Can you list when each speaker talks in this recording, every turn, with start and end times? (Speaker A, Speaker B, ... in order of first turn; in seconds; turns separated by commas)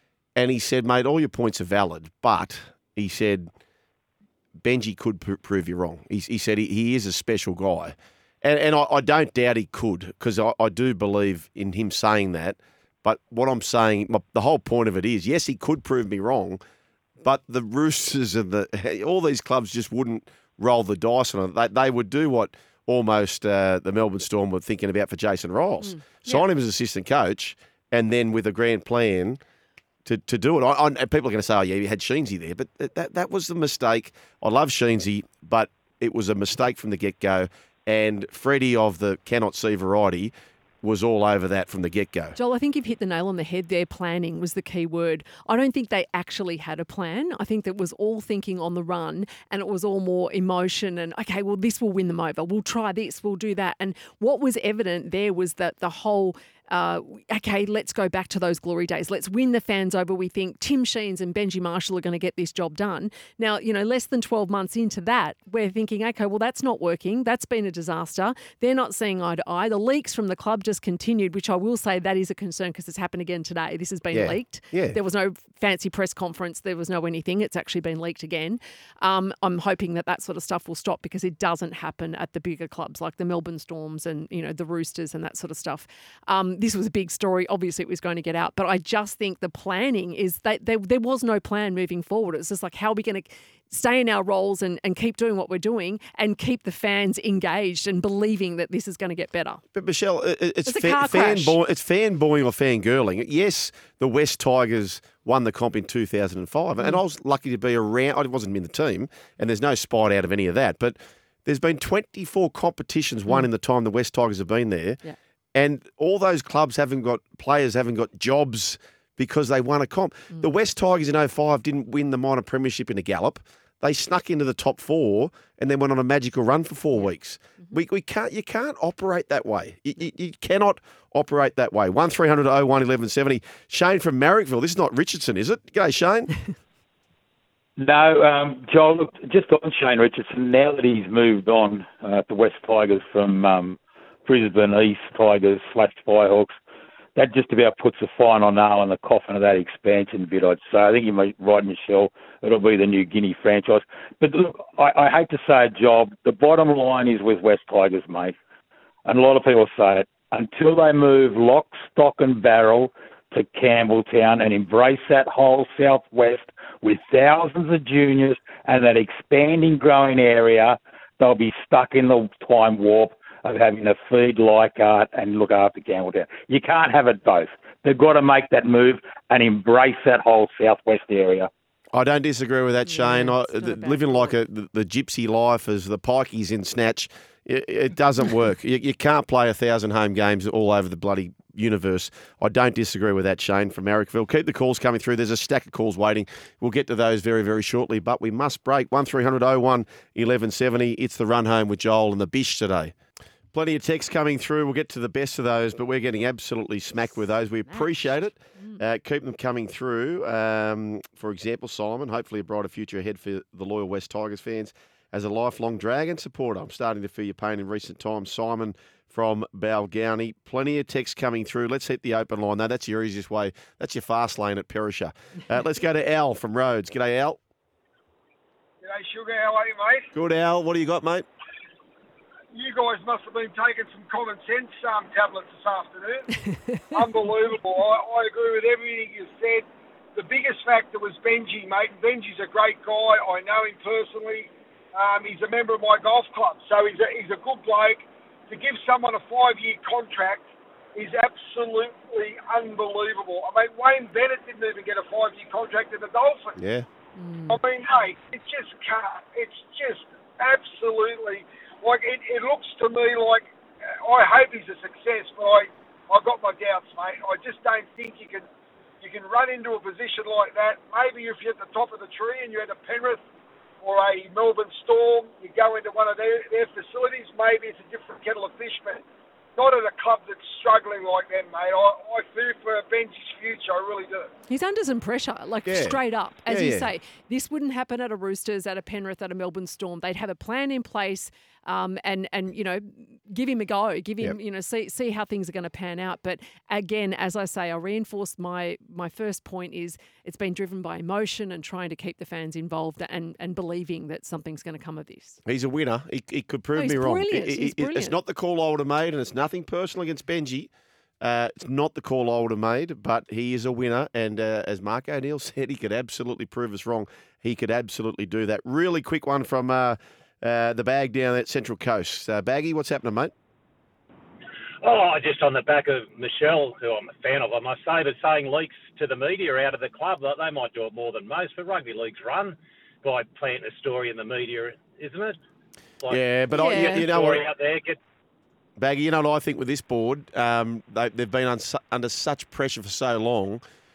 Speaker A: 0.3-3.5, Speaker A: 4.6-16.6, Speaker A: 17.2-29.4, Speaker B: 25.9-26.4, Speaker A: 30.0-42.4, Speaker B: 42.4-99.6, Speaker A: 74.1-75.0, Speaker A: 99.7-115.0, Speaker B: 100.7-101.6, Speaker A: 115.5-136.4, Speaker C: 137.8-146.5, Speaker C: 147.2-158.3, Speaker C: 159.0-181.5, Speaker A: 181.9-202.9, Speaker B: 182.9-184.3, Speaker A: 203.5-227.4, Speaker D: 228.8-230.1, Speaker A: 230.1-231.2, Speaker D: 232.5-256.6, Speaker A: 256.6-256.9, Speaker B: 257.1-257.6, Speaker D: 257.5-263.5, Speaker D: 264.0-268.5, Speaker D: 269.0-273.2, Speaker D: 273.8-279.0, Speaker D: 279.6-284.3, Speaker B: 284.5-305.4, Speaker A: 285.6-286.9, Speaker A: 305.4-310.7, Speaker B: 306.8-308.1, Speaker A: 311.2-323.3, Speaker E: 324.8-335.4, Speaker E: 336.0-338.0, Speaker A: 336.1-337.4, Speaker B: 336.5-337.1, Speaker A: 338.8-343.6